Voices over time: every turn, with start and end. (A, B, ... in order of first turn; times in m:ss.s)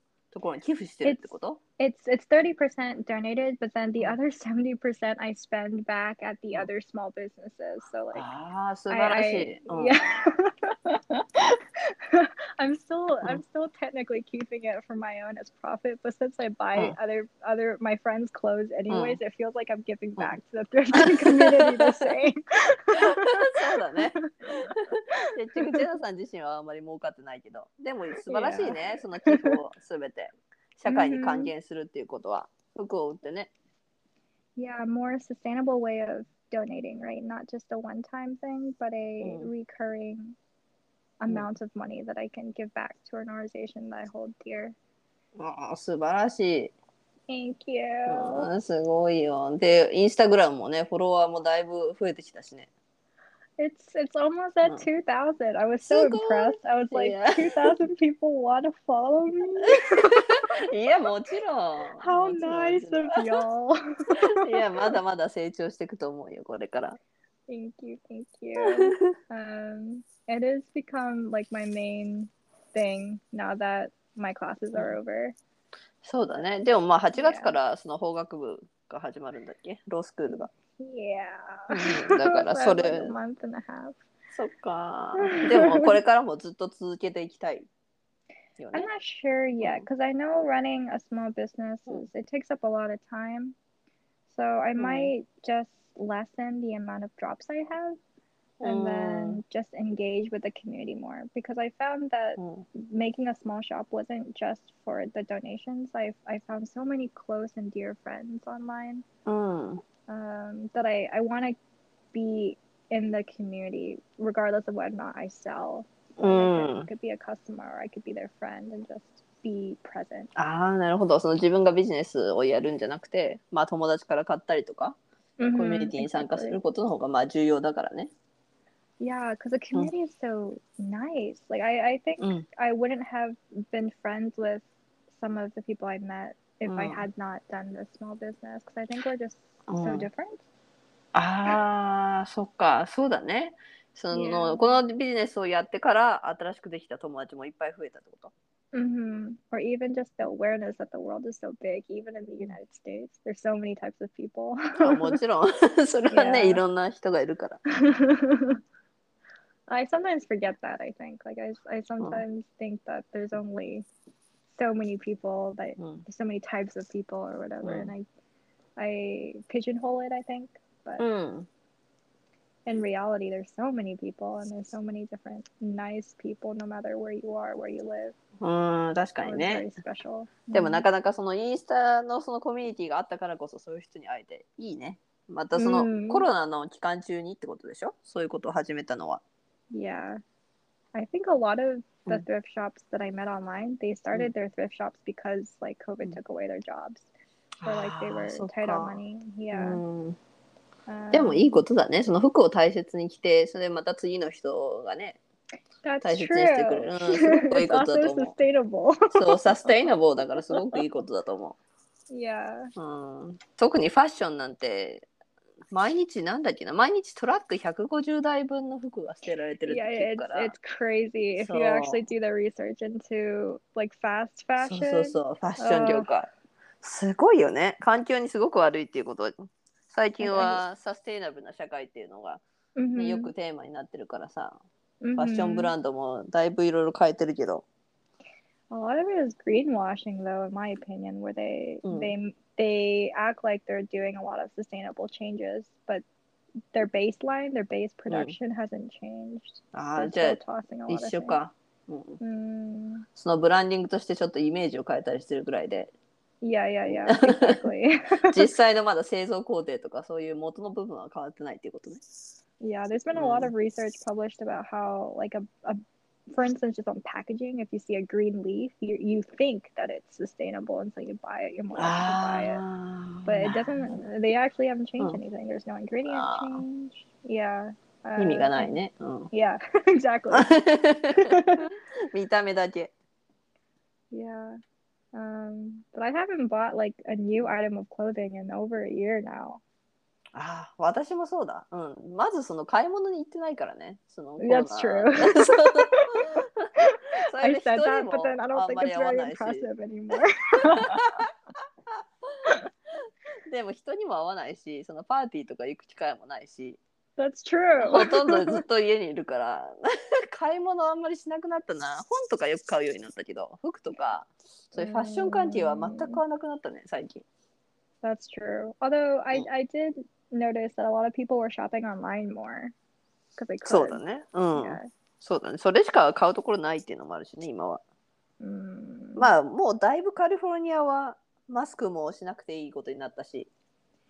0:00.3-0:01.6 A
0:01.0-0:08.3 B
0:08.1-0:10.0 A
0:08.9-0:25.8 B
0:18.9-0:19.2 A
0:20.9-0:22.1 A
0:22.9-0:33.5 A
0:28.2-0:29.6 B
0:30.8-0:31.5 B
0:34.6-0:40.4 B
0:39.2-0:39.5 A
0:41.2-0:44.8 B
0:45.4-0:46.7 A
0:47.3-0:48.5 B
0:48.1-0:52.7 A
0:53.6-1:00.2 B
0:55.9-0:57.7 A
0:59.9-1:03.4 A
1:02.0-1:05.0 B
1:04.2-1:07.0 A
1:07.5-1:15.4 B
1:08.6-1:09.1 A
1:16.0-1:20.5 A
1:17.1-1:17.6 B
1:20.3-1:24.0 B
1:21.7-1:23.1 A
1:24.3-1:27.7 A
1:25.2-1:25.9 B
1:28.6-1:28.9 A
1:28.7-1:33.6 B
1:34.3-1:38.0 B
1:34.8-1:35.1 A
1:38.6-1:39.4 A
1:38.6-1:49.0 B
1:42.4-1:42.6 A
1:49.2-1:49.8 A
1:50.1-1:51.6 B
1:52.1-2:00.3 B
1:56.2-1:56.9 A
2:00.4-2:05.0 A
2:05.4-2:06.6 B
2:05.5-2:08.1 A
2:09.0-2:20.4 B
2:12.2-2:12.4 A
2:16.6-2:17.0 A
2:19.7-2:20.1 A
2:21.1-2:28.3 A
2:24.1-2:24.8 B
2:28.7-2:35.2 B
2:34.8-2:37.6 A
2:36.1-2:36.6 B
2:37.8-2:38.6 B
2:39.7-2:43.8 B
2:44.5-2:48.0 B
2:47.6-2:47.9 A
2:48.8-2:51.0 B
2:51.0-2:51.5 A
2:52.6-2:58.1 B
2:58.4-2:59.6 A
2:59.2-3:00.8 B
3:00.5-3:09.2 A
3:05.5-3:06.3 B
3:09.7-3:10.2 B
3:10.9-3:17.1 B
3:17.6-3:19.0 A
3:17.6-3:19.8 B
3:19.5-3:20.2 A
3:20.9-3:21.5 B
3:21.1-3:25.2 A
3:25.8-3:30.8 B
3:26.0-3:28.3 A
3:29.1-3:31.6 A
3:32.1-3:32.7 B
3:32.8-3:35.1 A
3:35.7-3:40.5 A
3:39.6-3:46.1 B
3:41.4-3:42.0 A
3:44.6-3:46.3 A
3:46.8-3:52.4 A
3:50.2-3:50.6 B
3:52.8-3:53.3 B
3:52.9-3:54.6 A
3:55.0-3:55.7 B
3:55.1-3:57.6 A
3:58.7-4:06.0 B
4:01.8-4:02.1 A
4:06.7-4:11.4 B
4:08.1-4:08.3 A
4:09.7-4:12.2 A
4:12.2-4:13.1 B
4:13.1-4:15.9 A
4:16.4-4:18.4 B
4:16.9-4:17.6 A
4:18.3-4:22.0 A
4:22.6-4:32.6 B
4:23.1-4:23.5 A
4:31.8-4:34.0 A
4:33.2-4:38.8 B
4:36.1-4:36.6 A
4:38.2-4:39.3 A
4:39.3-4:40.5 B
4:40.3-4:42.9 A
4:41.1-4:41.6 B
4:44.1-4:44.6 B
4:45.1-4:49.6 B
4:50.3-4:59.6 A
4:54.4-5:01.2 B
5:00.8-5:01.3 A
5:01.9-5:02.5 A
5:03.4-5:06.8 A
5:07.2-5:08.6 B
5:07.8-5:17.2 A
5:14.7-5:16.2 B
5:18.0-5:22.7 B
5:23.4-5:24.0 B
5:23.6-5:27.8 A
5:24.5-5:24.9 B
5:28.4-5:29.3 B
5:29.2-5:33.5 A